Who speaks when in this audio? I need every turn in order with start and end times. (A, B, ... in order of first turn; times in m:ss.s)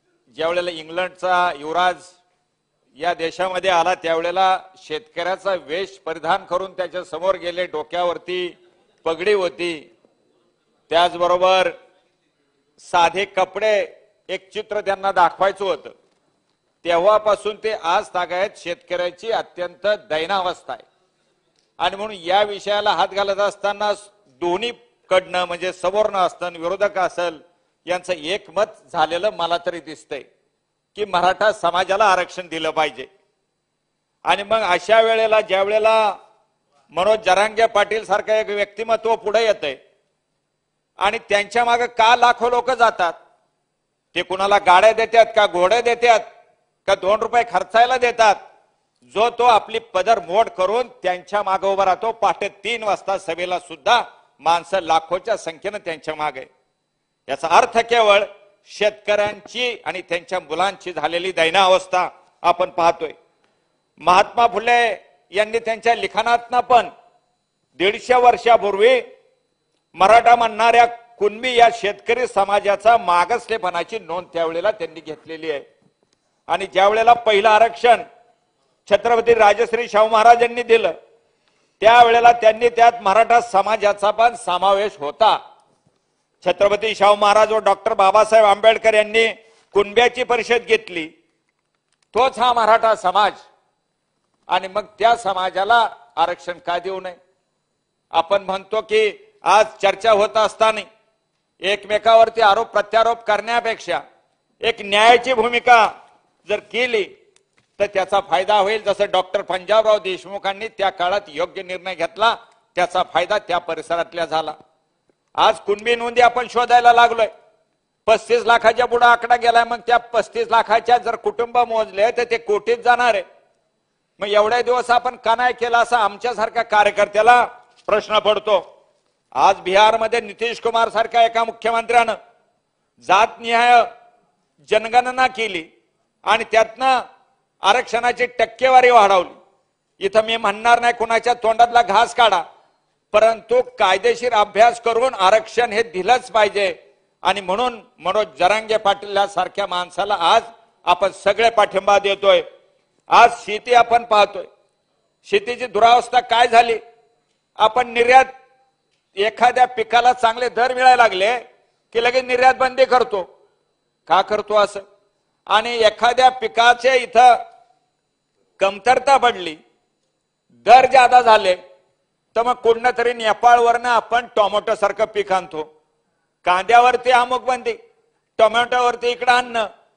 0:00.3-0:02.1 A
0:03.0-0:08.5 A
0:09.0-0:09.8 A
0:10.9-0:11.7 A
0:12.8-0:15.9 A
0:16.8-0:20.8 A
0:21.8-0:30.2 A
0:30.9-0:33.1 A
0:34.3-0:36.0 A
0:36.9-0:39.8 A
0:41.0-0:43.2 A
0:44.1-0:46.2 A
0:46.8-0:48.4 A
0:49.0-0:56.5 A
0:57.3-1:03.1 A
1:04.0-1:06.9 A
1:07.8-1:09.0 A
1:10.0-1:15.6 A
1:16.5-1:18.0 A
1:18.8-1:20.9 A
1:21.8-1:25.4 A
1:26.4-1:31.1 A
1:32.1-1:33.4 A
1:34.5-1:37.2 A
1:38.1-1:40.8 A
1:41.6-1:44.0 A
1:44.6-1:45.9 A
1:46.4-1:47.1 A
1:47.8-1:54.5 A
1:55.4-1:57.3 A
1:58.0-2:03.2 A
2:04.2-2:08.6 A
2:09.4-2:12.2 A
2:13.0-2:13.8 A
2:14.6-2:15.6 A
2:16.2-2:16.9 A
2:17.6-2:19.4 A
2:20.0-2:22.4 A
2:23.1-2:26.7 A
2:27.2-2:32.4 A
2:33.1-2:34.5 A
2:35.2-2:36.8 A
2:37.6-2:38.3 A
2:39.2-2:41.4 A
2:41.9-2:43.2 A
2:44.1-2:44.8 A
2:45.5-2:47.3 A
2:48.6-2:49.6 A
2:50.6-2:51.6 A
2:52.3-2:55.6 A
2:56.4-2:57.8 A
2:58.4-2:59.6 A